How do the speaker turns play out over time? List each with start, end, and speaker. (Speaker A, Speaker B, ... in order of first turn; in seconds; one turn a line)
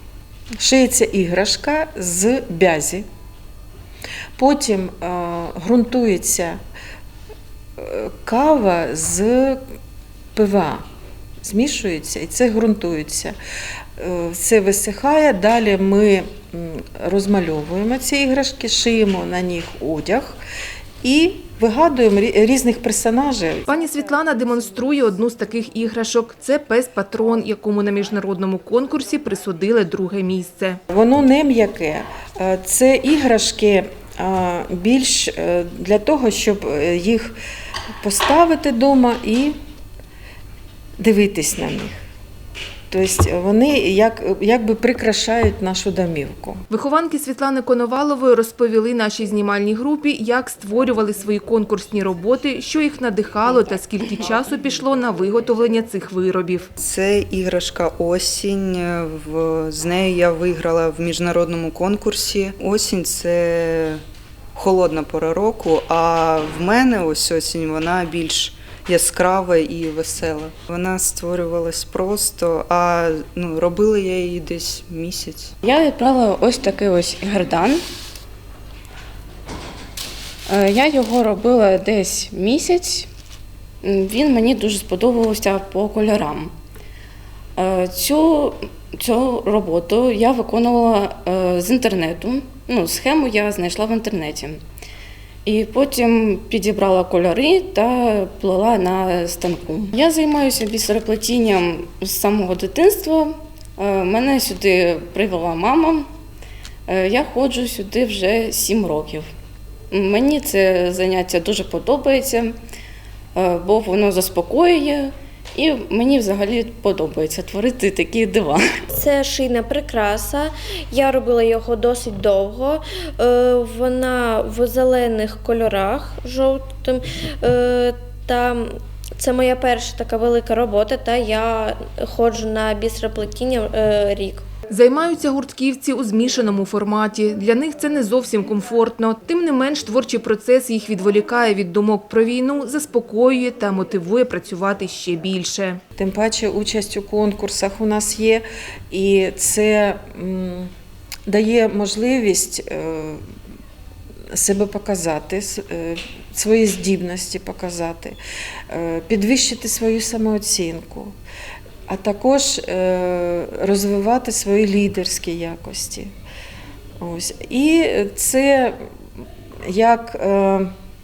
Speaker A: 0.6-3.0
Speaker A: 4.4-6.6
Speaker A: 7.8-9.6
Speaker A: 10.3-10.8
Speaker A: 11.4-13.3
Speaker A: 14.0-20.4
Speaker A: 21.0-23.6
Speaker B: 23.7-30.8
Speaker A: 30.9-37.4
Speaker A: 38.0-39.5
Speaker A: 41.0-42.0
Speaker A: 42.9-46.6
Speaker B: 46.7-56.7
Speaker C: 56.8-64.0
Speaker C: 64.5-75.5
Speaker D: 75.6-77.8
Speaker D: 80.5-83.1
Speaker D: 83.8-86.5
Speaker D: 87.6-94.6
Speaker D: 95.4-106.0
Speaker D: 106.9-109.3
Speaker D: 109.9-112.5
Speaker D: 113.3-118.8
Speaker E: 118.9-134.4
Speaker B: 134.7-145.8
Speaker A: 145.9-150.7
Speaker A: 151.3-153.3
Speaker A: 154.3-158.2
Speaker A: 158.7-161.2
Speaker A: 161.9-166.1
Speaker A: 167.0-168.8
Speaker A: 169.6-170.7